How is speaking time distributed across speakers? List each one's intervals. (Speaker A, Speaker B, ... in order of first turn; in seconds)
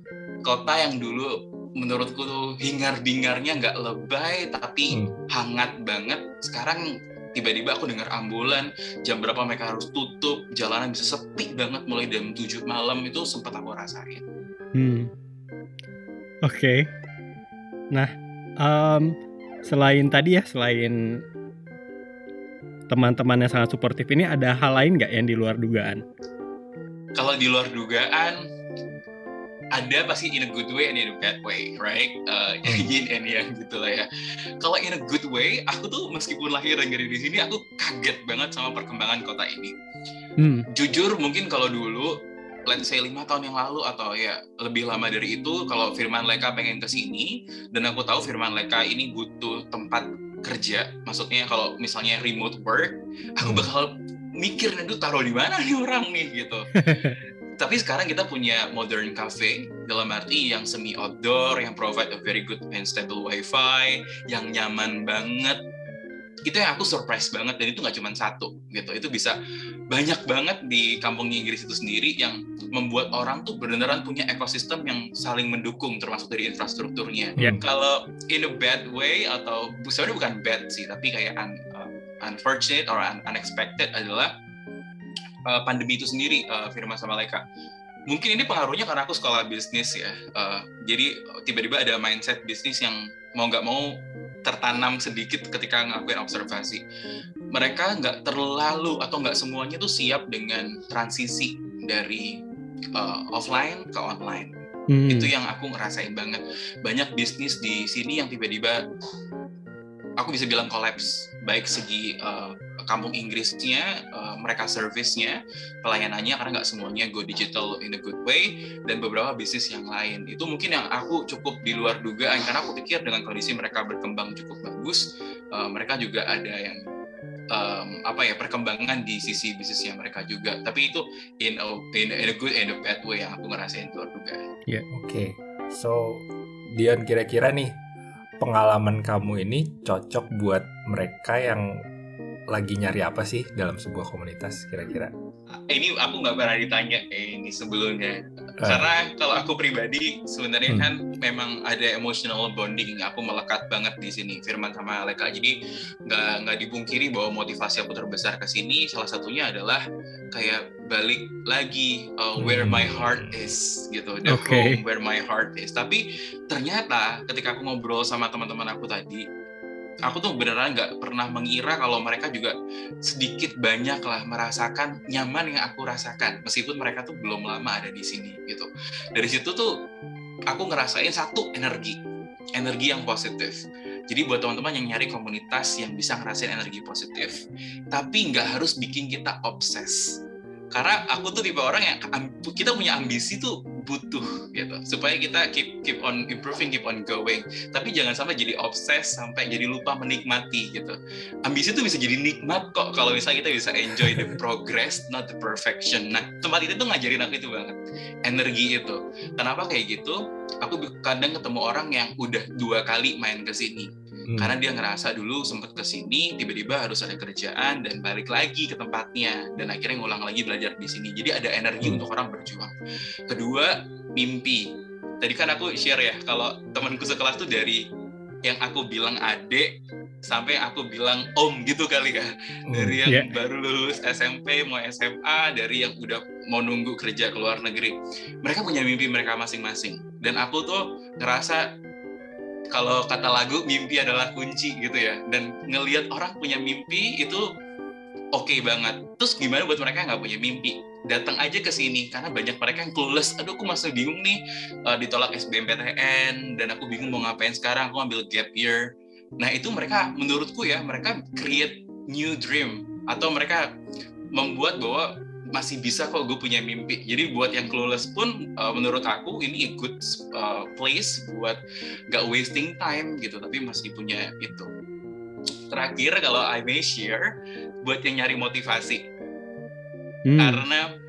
Speaker A: 0.5-6.8, 7.3-14.2, 27.2-28.4, 29.8-34.1, 34.6-39.7, 40.7-42.1, 42.7-56.7, 57.6-65.6, 66.5-69.4, 69.9-84.3, 85.5-87.4, 88.1-93.9, 94.5-96.8, 97.5-102.3, 103.0-104.5, 105.1-108.8, 110.2-126.8, 127.5-134.4, 145.6-155.6, 156.1-159.8, 160.3-169.3, 170.1-172.5, 173.1-179.7, 180.5-182.0, 182.6-183.6, 184.1-187.4, 187.9-190.0, 190.7-222.7, 223.3-224.7, 225.2-227.8, 228.5-229.7, 230.3-241.6, 242.7-247.4, 248.3-258.9, 259.4-263.6, 264.4-271.6, 272.1-274.7, 275.7-277.3, 277.8-279.0, 280.4-280.9
Speaker B: 14.8-15.1, 16.5-16.9, 18.6-19.1, 19.7-21.0, 22.9-26.0, 40.4-40.7, 56.8-57.2, 104.9-105.3, 164.3-164.8, 280.3-280.6
Speaker C: 32.6-32.9, 53.4-53.7, 134.9-137.8, 138.4-141.8, 142.5-145.1, 148.6-148.9, 162.4-163.5, 204.0-204.3, 214.3-214.6, 232.7-233.0